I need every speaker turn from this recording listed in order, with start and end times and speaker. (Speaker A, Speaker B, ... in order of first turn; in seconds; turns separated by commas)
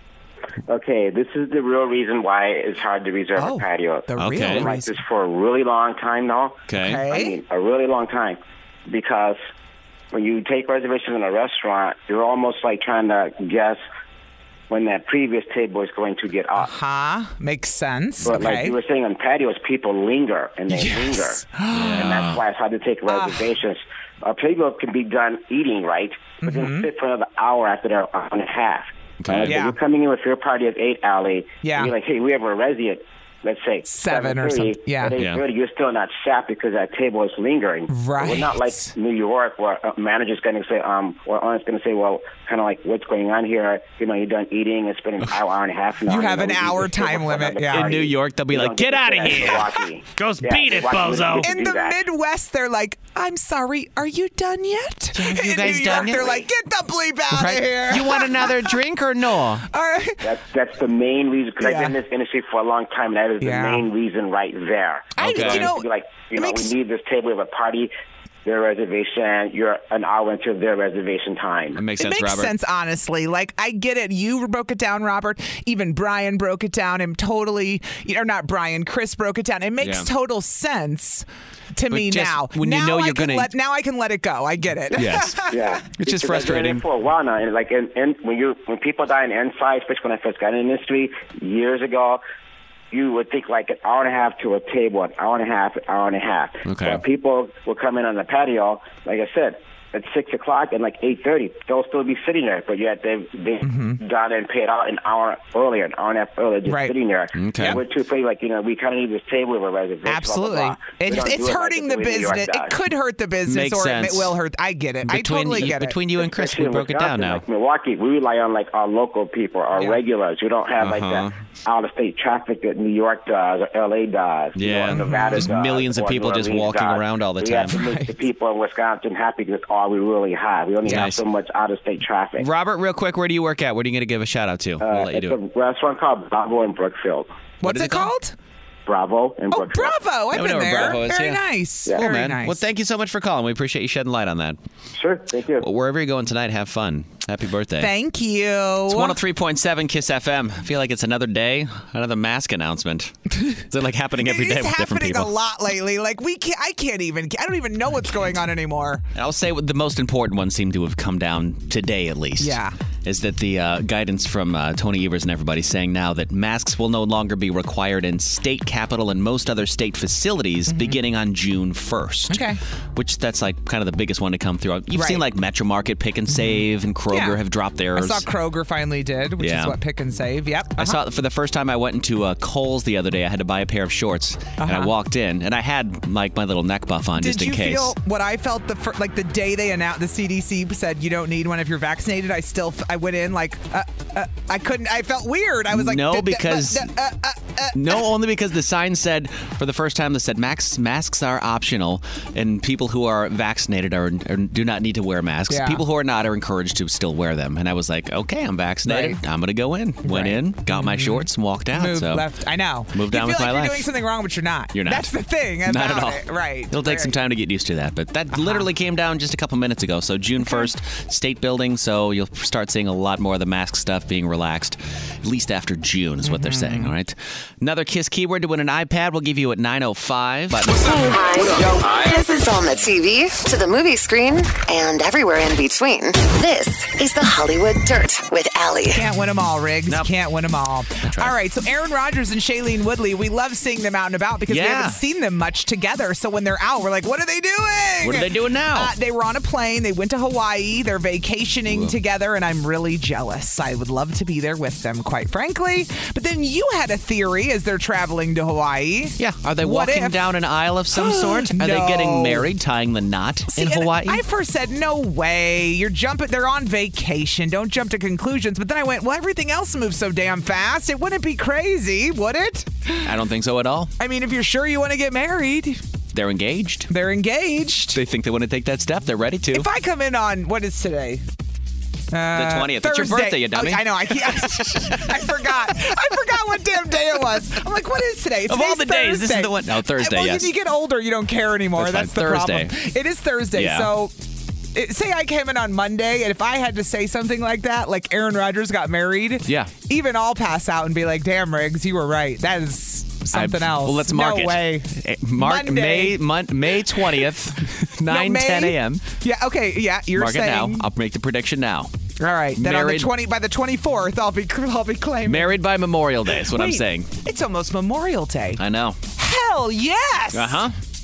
Speaker A: 0.7-9.4, Speaker B: 3.4-5.0, Speaker C: 4.2-4.7, Speaker C: 6.7-7.0, Speaker B: 6.7-7.3, Speaker A: 10.1-13.8, Speaker A: 14.7-16.7, Speaker B: 16.6-18.8, Speaker A: 18.2-52.0, Speaker B: 20.7-22.2, Speaker C: 21.7-22.4, Speaker B: 23.1-23.5, Speaker B: 26.4-26.9, Speaker C: 29.2-29.6, Speaker B: 29.3-29.8, Speaker B: 31.6-31.9, Speaker B: 33.9-35.2, Speaker C: 35.2-35.4, Speaker B: 37.9-38.9, Speaker B: 46.1-47.9, Speaker C: 47.7-51.5, Speaker B: 51.4-58.8, Speaker C: 55.1-56.5, Speaker C: 57.3-59.7, Speaker B: 59.7-60.3, Speaker A: 60.2-67.9, Speaker B: 61.6-62.0, Speaker B: 63.4-63.8, Speaker B: 65.1-66.7, Speaker C: 65.2-65.8, Speaker A: 68.4-71.8, Speaker C: 71.8-72.5, Speaker B: 71.9-85.7, Speaker C: 79.8-80.1, Speaker C: 81.9-83.5, Speaker C: 84.9-86.8, Speaker A: 85.5-92.2, Speaker A: 92.9-112.7, Speaker C: 96.6-97.0, Speaker B: 103.6-104.0, Speaker B: 106.7-106.9, Speaker C: 107.3-107.8, Speaker B: 110.0-116.0, Speaker C: 113.5-114.3, Speaker C: 115.0-117.4, Speaker A: 116.2-132.5, Speaker C: 120.8-121.3, Speaker C: 124.5-127.8, Speaker B: 124.9-125.5, Speaker B: 127.7-128.1, Speaker B: 130.8-131.1, Speaker C: 130.8-131.2, Speaker C: 132.4-135.4, Speaker A: 134.8-137.3, Speaker B: 137.6-138.3, Speaker C: 137.6-138.1, Speaker A: 138.8-140.0, Speaker B: 139.5-142.6, Speaker C: 140.3-144.6, Speaker A: 145.0-145.6, Speaker C: 145.6-147.9, Speaker B: 147.8-149.2, Speaker C: 148.9-155.3, Speaker B: 154.2-159.0, Speaker C: 159.1-178.3, Speaker B: 162.4-162.8, Speaker B: 170.7-171.0, Speaker B: 172.3-172.6, Speaker B: 174.9-175.2, Speaker B: 176.3-177.4, Speaker B: 177.9-181.0, Speaker C: 179.4-179.8, Speaker C: 180.8-187.9, Speaker B: 184.6-184.9, Speaker B: 187.2-198.0, Speaker C: 195.7-196.9, Speaker C: 197.7-212.2, Speaker B: 205.5-205.8, Speaker B: 208.8-209.2, Speaker B: 210.0-217.1, Speaker C: 212.9-213.9, Speaker C: 214.7-215.1, Speaker C: 215.7-231.1, Speaker B: 218.3-218.6, Speaker B: 220.4-220.7, Speaker B: 226.2-226.9, Speaker D: 230.8-239.1, Speaker B: 238.9-260.2, Speaker C: 241.0-241.3, Speaker C: 244.5-245.0, Speaker C: 248.0-248.9, Speaker C: 251.7-251.9, Speaker C: 259.2-264.2, Speaker B: 260.9-262.4, Speaker B: 263.5-273.1, Speaker C: 273.0-273.9, Speaker B: 274.0-275.8, Speaker C: 276.1-276.9, Speaker B: 276.9-278.0, Speaker C: 277.9-279.7, Speaker B: 279.5-281.2, Speaker B: 282.1-294.1, Speaker C: 282.3-286.2, Speaker C: 288.5-290.5, Speaker C: 291.8-292.7, Speaker C: 293.5-293.9, Speaker B: 294.7-306.2, Speaker C: 299.4-299.7, Speaker C: 303.3-309.1, Speaker B: 307.0-307.3, Speaker B: 308.0-310.8, Speaker C: 310.1-311.9, Speaker B: 312.2-315.5, Speaker C: 312.6-313.1, Speaker C: 315.3-317.1, Speaker B: 316.4-318.6, Speaker C: 318.6-319.0, Speaker B: 319.2-320.7, Speaker C: 320.3-320.7